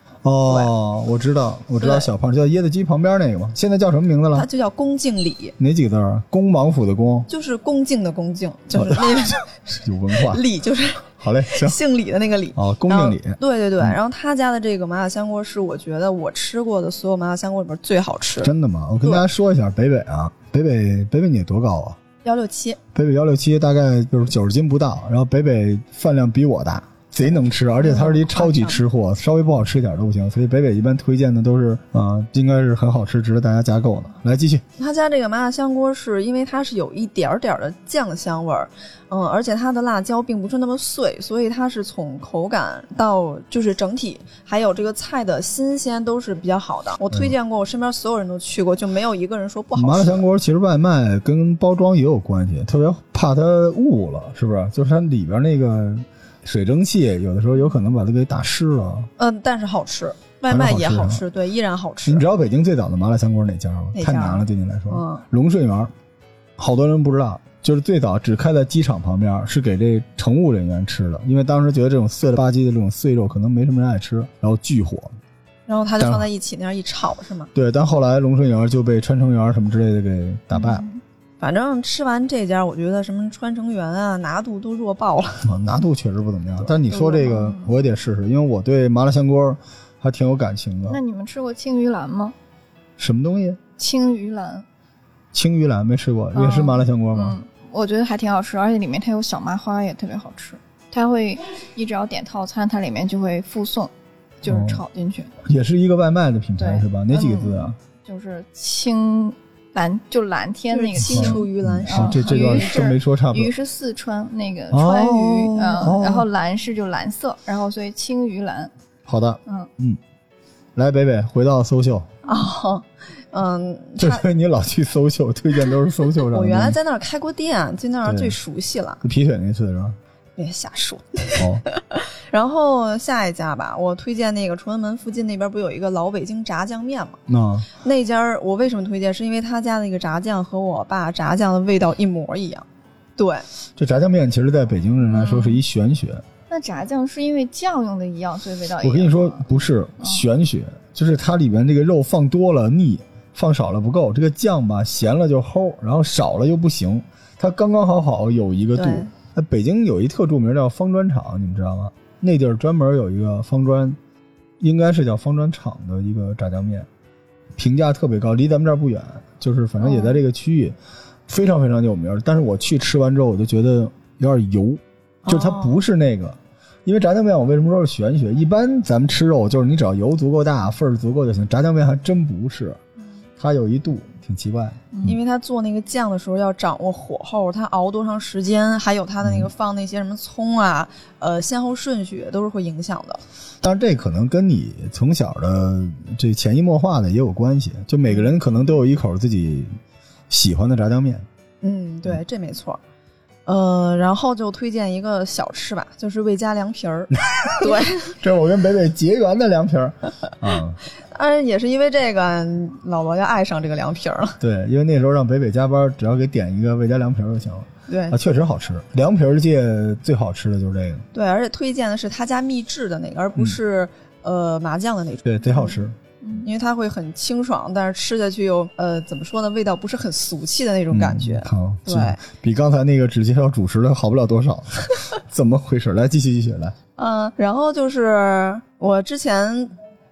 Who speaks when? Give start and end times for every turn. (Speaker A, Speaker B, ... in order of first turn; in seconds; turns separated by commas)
Speaker A: 0.2-4.5, Speaker B: 0.5-0.7, Speaker B: 1.8-2.1, Speaker B: 4.3-5.5, Speaker A: 5.6-7.3, Speaker B: 7.3-9.4, Speaker A: 8.8-10.4, Speaker B: 10.2-18.5, Speaker A: 11.2-11.8, Speaker A: 12.6-14.0, Speaker A: 18.4-22.0, Speaker B: 22.2-22.8, Speaker A: 22.9-34.6, Speaker B: 27.8-28.8, Speaker B: 34.8-50.2, Speaker A: 49.8-59.1, Speaker B: 59.2-62.2, Speaker A: 60.5-61.2, Speaker A: 62.0-65.9, Speaker B: 63.9-65.2, Speaker A: 66.6-75.2, Speaker B: 75.7-77.5, Speaker A: 76.0-76.3, Speaker A: 77.5-80.8, Speaker C: 80.5-81.0, Speaker B: 81.4-85.5, Speaker A: 85.5-91.0, Speaker B: 86.9-87.4, Speaker C: 87.3-87.7, Speaker C: 90.9-92.3, Speaker A: 93.0-93.6, Speaker C: 93.8-94.7, Speaker A: 95.3-97.4, Speaker C: 96.3-103.9, Speaker C: 104.4-105.3, Speaker A: 104.5-104.8, Speaker A: 105.4-107.8, Speaker C: 106.6-118.7, Speaker B: 110.7-112.7, Speaker A: 111.0-113.5, Speaker A: 114.7-116.3, Speaker A: 119.1-120.0, Speaker A: 120.8-122.1, Speaker B: 122.3-124.2, Speaker A: 124.0-126.8, Speaker B: 126.3-129.0, Speaker A: 128.1-128.4, Speaker A: 129.0-130.0, Speaker B: 130.4-137.2, Speaker A: 131.4-131.6, Speaker A: 137.3-137.7, Speaker B: 137.8-142.7, Speaker B: 143.2-143.5, Speaker A: 143.8-146.2, Speaker C: 146.5-149.5, Speaker A: 148.8-164.0, Speaker B: 158.8-159.1, Speaker A: 164.6-166.9, Speaker A: 167.6-170.8, Speaker A: 171.3-182.8, Speaker B: 175.3-175.8, Speaker A: 183.4-185.2, Speaker B: 185.1-193.2, Speaker A: 189.2-189.5, Speaker A: 193.6-199.8, Speaker A: 200.3-201.3, Speaker B: 201.6-202.8, Speaker B: 203.5-208.1, Speaker A: 207.4-210.8, Speaker B: 211.1-214.4, Speaker A: 214.4-221.1, Speaker B: 217.9-218.2, Speaker B: 221.1-232.2, Speaker A: 225.2-226.0, Speaker A: 230.9-236.8, Speaker B: 237.0-239.7